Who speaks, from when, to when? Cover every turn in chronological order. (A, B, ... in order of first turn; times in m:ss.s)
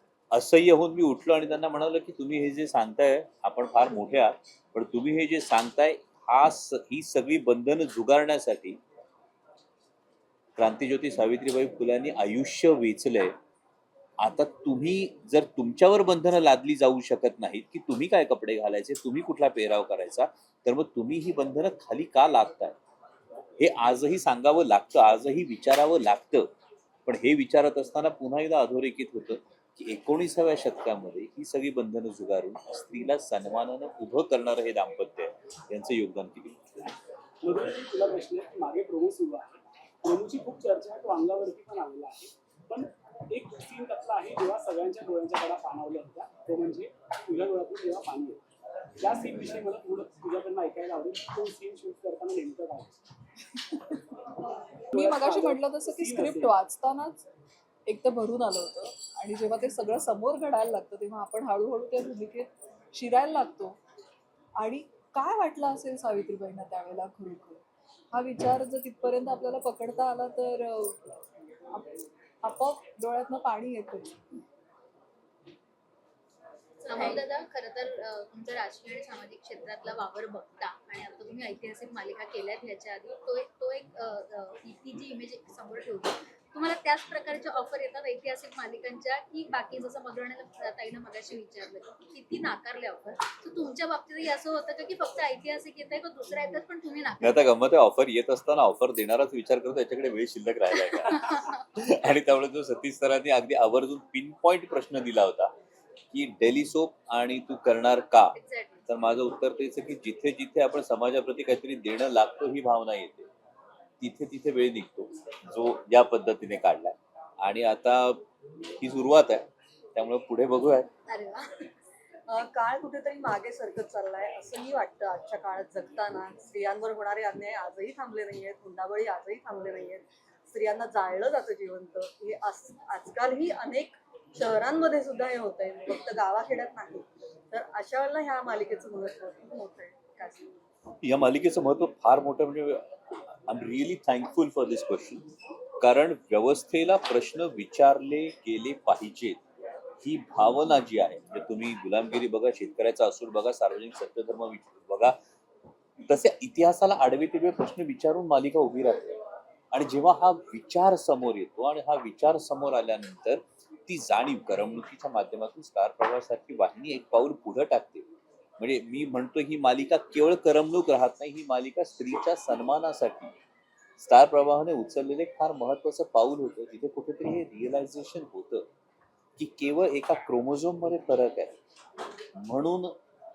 0:00.3-0:08.8 A
0:10.6-0:13.3 A
0:14.2-0:22.8 A
0:23.6-0:26.5 A
0:27.1-0:36.6 A
0:37.4-0:48.4 B
0:49.0-0:52.9 B
0:54.9-0:57.2 C
0:54.9-0:56.5 B
0:57.9-1:03.8 C
1:04.6-1:11.0 C
1:12.4-1:14.2 C
1:16.8-1:37.5 D
1:37.2-1:45.5 A
1:46.1-1:48.4 A
1:48.4-1:48.8 D
1:48.9-1:53.3 A
1:54.0-1:58.2 A
1:58.8-2:00.9 A
2:01.1-2:01.7 D
2:02.3-2:20.5 E
2:21.0-2:22.8 A
2:23.5-2:25.2 A
2:25.8-2:29.4 A
2:30.0-2:35.2 A
2:36.1-2:39.2 A
2:39.7-2:48.1 A
2:48.6-2:53.4 A
2:54.0-2:58.6 A
2:59.4-3:01.6 A
3:02.4-3:02.9 A